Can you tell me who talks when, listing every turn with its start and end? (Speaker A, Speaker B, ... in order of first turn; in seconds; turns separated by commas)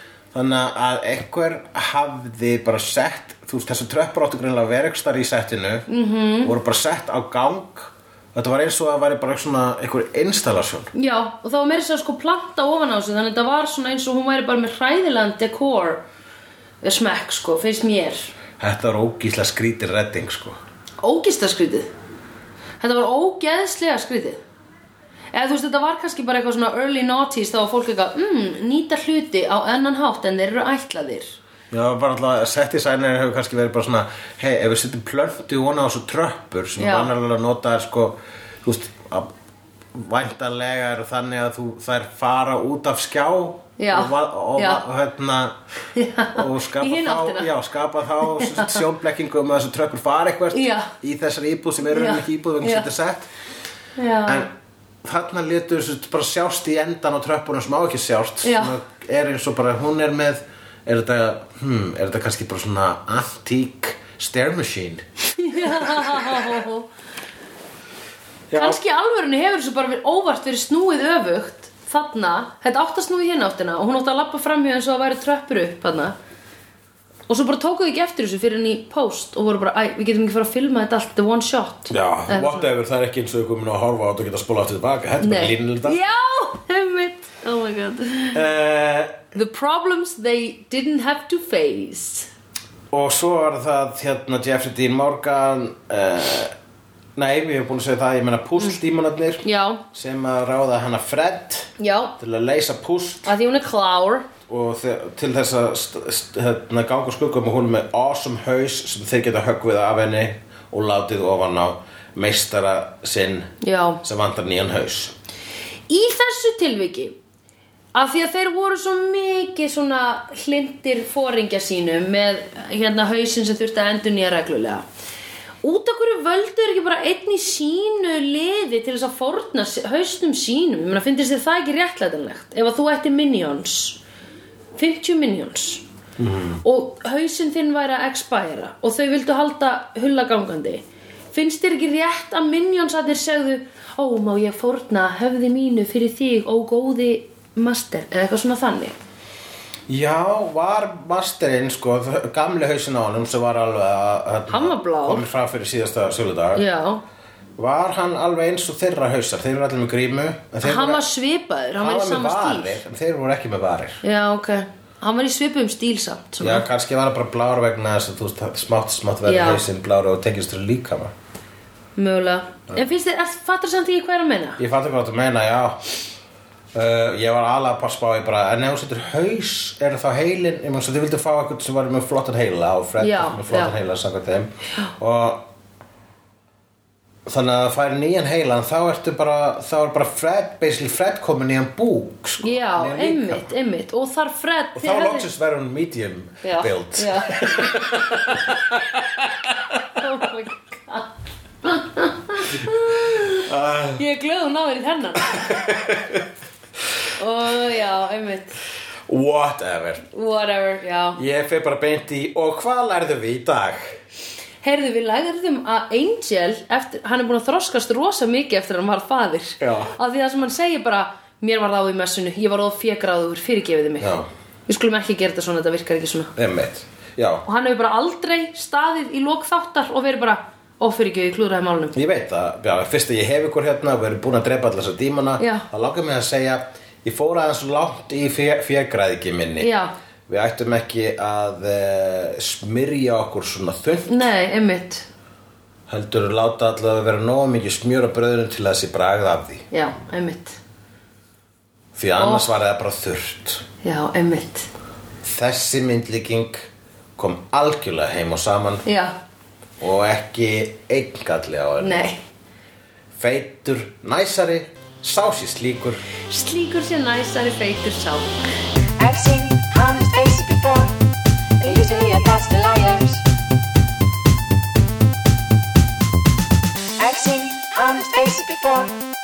Speaker A: 0.3-5.8, Speaker B: 5.9-6.5, Speaker A: 6.4-10.9, Speaker B: 10.9-16.0, Speaker B: 16.8-18.3, Speaker A: 18.6-20.6, Speaker B: 21.0-21.9, Speaker B: 22.8-24.4, Speaker B: 25.3-31.4, Speaker A: 31.7-39.3, Speaker B: 36.8-37.1, Speaker A: 39.9-45.6, Speaker B: 43.8-44.8, Speaker B: 45.9-47.5, Speaker A: 46.3-53.3, Speaker B: 48.2-48.8, Speaker B: 50.5-50.9, Speaker B: 51.9-52.9, Speaker B: 54.0-54.5, Speaker A: 54.2-54.5, Speaker A: 55.0-66.6, Speaker B: 58.4-58.7, Speaker B: 65.4-66.9, Speaker A: 68.5-68.8, Speaker B: 68.5-76.1, Speaker B: 77.3-82.7, Speaker A: 81.9-86.1, Speaker B: 85.2-88.4, Speaker A: 88.3-89.2, Speaker B: 89.3-92.3, Speaker A: 92.9-96.5, Speaker A: 97.2-103.3, Speaker B: 99.4-99.8, Speaker B: 101.8-102.1, Speaker B: 103.2-104.3, Speaker A: 104.5-113.5, Speaker B: 113.6-114.0, Speaker A: 114.0-115.1, Speaker B: 115.9-117.2, Speaker B: 117.9-124.8, Speaker B: 125.6-134.0, Speaker B: 134.8-135.8, Speaker A: 136.2-136.6, Speaker B: 136.6-148.9, Speaker A: 149.9-156.7, Speaker B: 154.5-155.2, Speaker B: 156.5-157.0, Speaker A: 157.6-161.0, Speaker B: 160.6-162.8, Speaker A: 161.8-164.0, Speaker B: 164.0-166.7, Speaker A: 166.4-171.1, Speaker B: 169.2-169.6, Speaker B: 171.9-174.6, Speaker A: 174.6-175.8, Speaker A: 176.7-185.5, Speaker B: 183.0-183.7, Speaker A: 187.2-193.5, Speaker B: 192.4-195.3, Speaker A: 194.8-199.5, Speaker B: 196.4-197.8, Speaker B: 199.9-201.1, Speaker B: 201.6-205.5, Speaker A: 203.1-204.0, Speaker A: 205.3-206.3, Speaker B: 207.2-208.6, Speaker A: 209.1-210.0, Speaker B: 210.1-211.2, Speaker A: 211.2-213.9, Speaker B: 214.6-224.2, Speaker A: 219.6-219.9, Speaker A: 224.0-224.3, Speaker B: 224.7-226.3, Speaker A: 226.3-227.4, Speaker B: 227.4-231.9, Speaker A: 231.9-239.7, Speaker B: 235.4-235.7, Speaker B: 239.6-239.9, Speaker A: 240.3-244.2, Speaker B: 244.1-245.1, Speaker A: 245.9-249.7, Speaker B: 249.7-250.6, Speaker A: 251.9-253.6, Speaker B: 252.2-252.5, Speaker B: 253.8-254.7, Speaker A: 255.2-258.8, Speaker B: 258.8-259.1, Speaker A: 259.8-262.1, Speaker B: 261.8-262.2, Speaker A: 263.2-266.0, Speaker B: 266.3-268.4, Speaker C: 269.0-271.0, Speaker C: 271.6-273.2, Speaker C: 277.0-278.9